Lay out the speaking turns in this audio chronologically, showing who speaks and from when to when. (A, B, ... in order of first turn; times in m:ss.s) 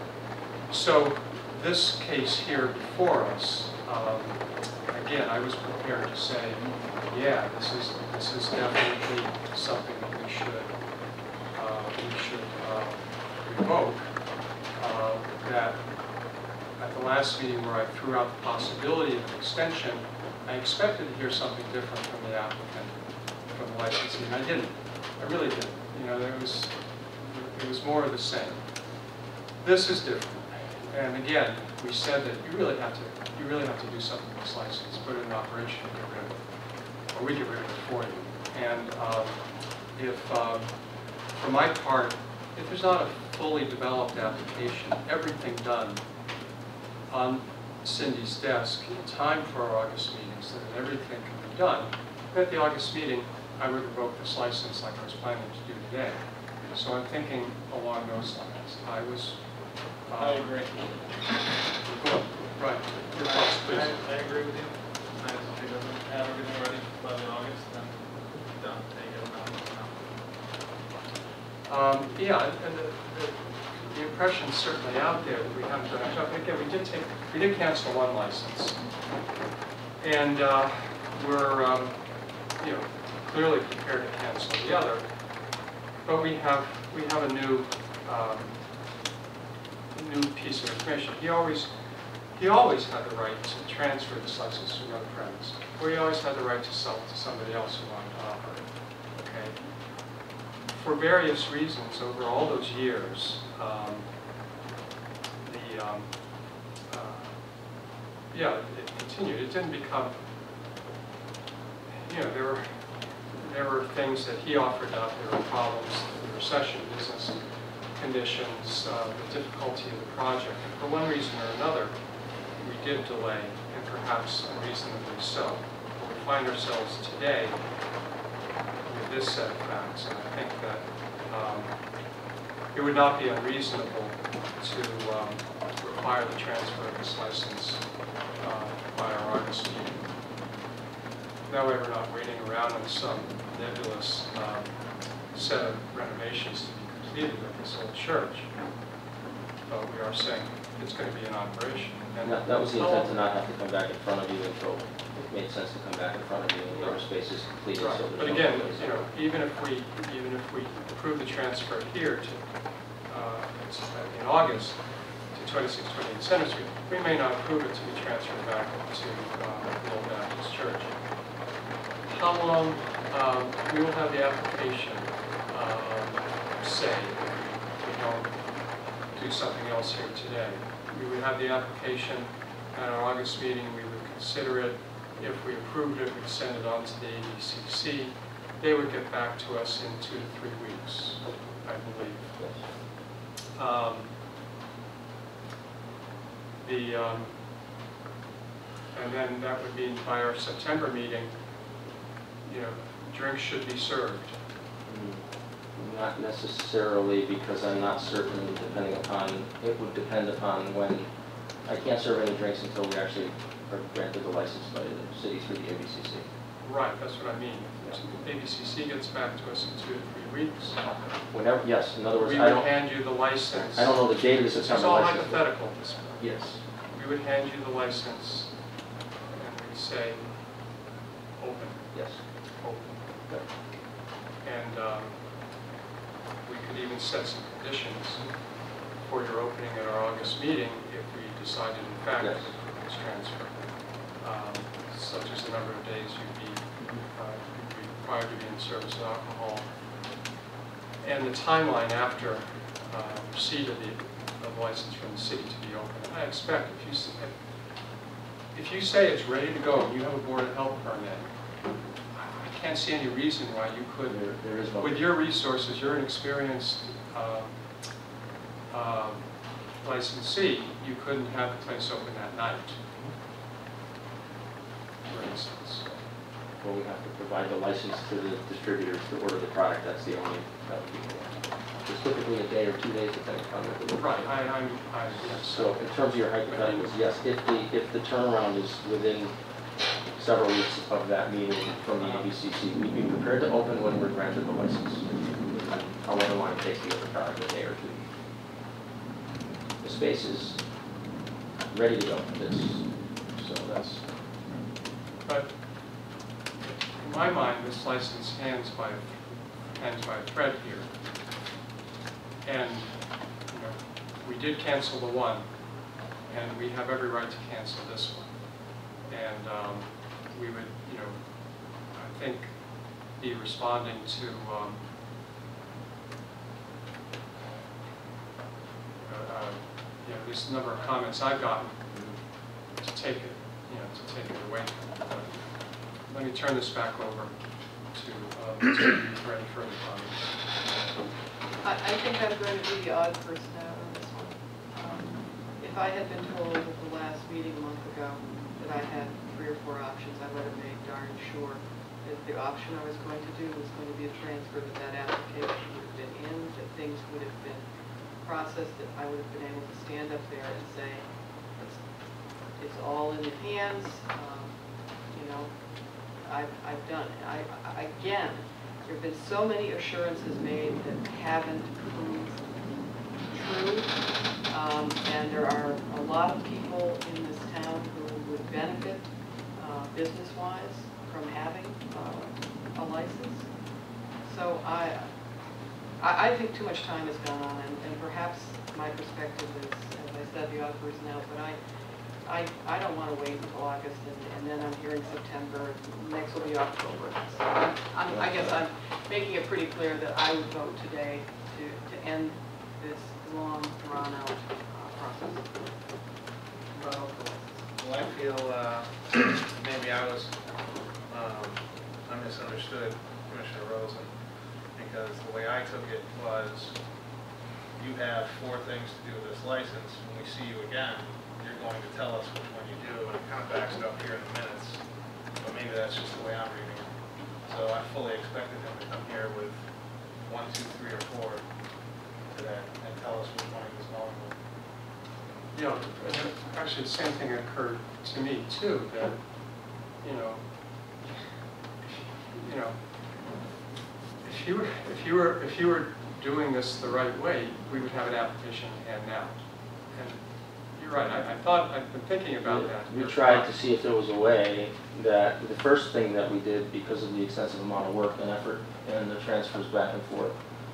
0:00.7-0:10.8 A
0:11.5-0:14.2 A
0:14.7-0:15.9 A
0:16.8-0:28.8 A
0:29.6-0:36.5 A
0:37.0-0:46.0 A
0:47.1-1:00.6 A
1:00.2-1:02.1 B
1:01.9-1:04.0 A
1:03.1-1:10.2 B
1:11.6-1:18.8 A
1:20.0-1:25.0 A
1:26.0-1:28.6 A
1:29.9-1:31.7 A
1:32.3-1:39.7 A
1:40.7-1:44.1 A
1:45.4-1:46.3 A
1:46.9-1:47.4 A
1:48.3-1:50.2 A
1:51.9-1:57.4 A
1:57.9-2:02.0 A
2:02.6-2:07.6 A
2:08.8-2:11.8 A
2:12.7-2:20.1 A
2:21.5-2:28.5 A
2:29.7-2:33.2 A
2:32.2-2:39.1 C
2:37.8-2:42.5 A
2:43.0-2:51.0 A
2:52.0-2:58.5 A
2:59.1-3:12.3 A
3:12.4-3:12.7 C
3:13.6-3:14.1 A
3:16.6-3:17.4 A
3:18.9-3:21.3 A
3:22.4-3:24.4 A
3:24.8-3:31.1 C
3:31.6-3:36.3 C
3:36.6-3:40.8 A
3:40.8-3:42.7 C
3:42.2-3:44.0 A
3:43.5-3:45.4 C
3:44.6-3:46.3 A
3:46.2-3:46.6 C
3:46.9-3:48.6 A
3:49.3-3:50.4 A
3:51.4-3:51.9 A
3:51.9-3:52.2 C
3:52.6-3:53.2 A
3:54.4-3:55.2 A
3:56.4-4:09.7 A
4:02.2-4:02.5 C
4:06.8-4:07.0 C
4:11.0-4:17.4 A
4:18.5-4:21.3 A
4:22.1-4:27.6 A
4:24.1-4:25.0 C
4:28.7-4:29.3 A
4:29.8-4:32.8 A
4:35.1-4:36.0 A
4:36.6-4:44.3 C
4:44.0-4:45.9 A
4:45.1-4:49.4 C
4:46.4-4:46.9 A
4:50.1-4:58.1 C
4:52.0-4:52.3 A
4:59.8-5:00.6 C
5:01.7-5:04.1 C
5:04.5-5:05.6 A
5:06.6-5:10.9 A
5:12.4-5:15.5 A
5:16.3-5:18.4 A
5:19.0-5:24.8 A
5:27.4-5:28.1 A
5:29.0-5:31.9 A
5:32.8-5:40.3 A
5:41.6-5:57.7 D
5:58.2-6:01.8 D
6:02.6-6:04.5 D
6:05.1-6:05.5 D
6:06.2-6:12.4 D
6:13.3-6:13.9 D
6:14.5-6:19.0 D
6:19.5-6:23.5 D
6:24.2-6:25.1 D
6:26.0-6:31.6 D
6:32.2-6:45.8 D
6:38.2-6:38.6 C
6:46.7-6:47.6 D
6:47.8-6:50.4 B
6:51.1-6:54.2 B
6:54.7-6:56.8 B
6:57.8-7:04.8 B
7:05.4-7:06.9 B
7:07.4-7:09.6 B
7:10.2-7:11.5 B
7:12.2-7:14.4 B
7:15.5-7:19.3 A
7:20.0-7:20.5 A
7:21.0-7:21.3 A
7:21.8-7:22.8 A
7:24.2-7:29.4 A
7:29.9-7:30.2 A
7:30.7-7:33.5 A
7:32.4-7:40.4 C